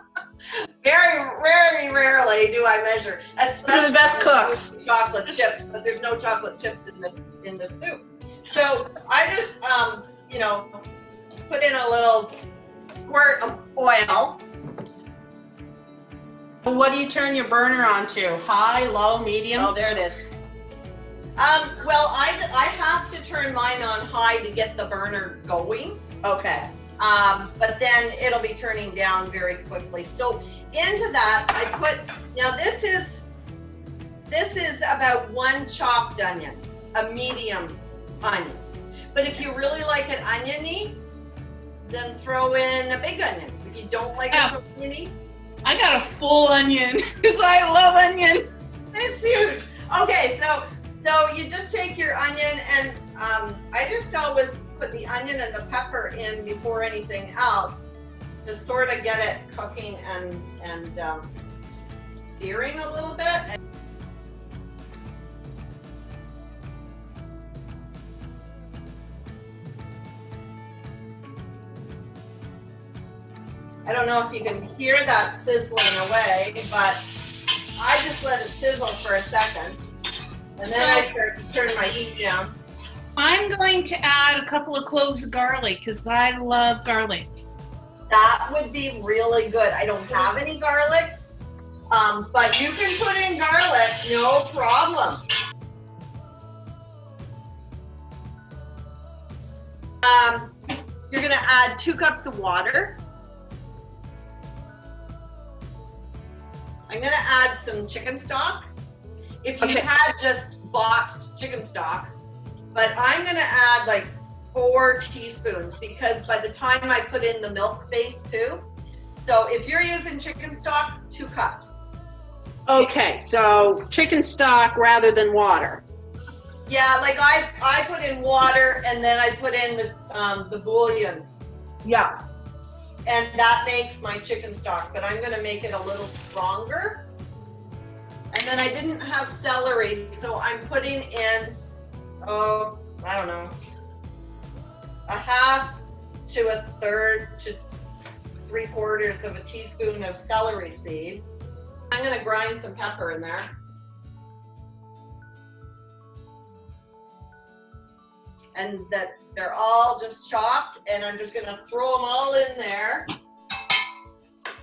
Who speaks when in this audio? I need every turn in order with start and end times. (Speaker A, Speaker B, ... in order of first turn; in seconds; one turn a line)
Speaker A: 0.8-10.8
Speaker B: 3.7-4.7
Speaker A: 11.5-12.3
Speaker A: 12.9-14.4
Speaker B: 16.6-19.7
Speaker A: 19.5-20.2
Speaker A: 21.4-26.0
Speaker B: 26.2-26.7
Speaker A: 27.0-33.2
Speaker A: 34.3-41.0
Speaker A: 41.8-45.1
Speaker C: 45.6-48.5
Speaker A: 48.9-57.8
Speaker A: 58.4-61.3
Speaker A: 62.4-63.6
Speaker A: 73.8-79.8
Speaker A: 80.6-82.5
Speaker C: 80.6-81.1
Speaker C: 83.2-87.3
Speaker A: 88.1-91.2
Speaker A: 91.9-95.2
Speaker A: 100.0-100.6
Speaker A: 101.1-103.0
Speaker A: 106.9-108.6
Speaker A: 109.4-112.1
Speaker B: 109.6-109.9
Speaker A: 112.7-118.6
Speaker A: 119.2-121.8
Speaker B: 122.7-125.8
Speaker A: 126.7-131.3
Speaker B: 131.8-132.1
Speaker A: 133.1-137.1
Speaker A: 138.3-141.6
Speaker A: 142.2-143.5
Speaker A: 145.1-147.6
Speaker A: 148.5-151.2
Speaker A: 151.9-153.5
Speaker A: 158.5-163.1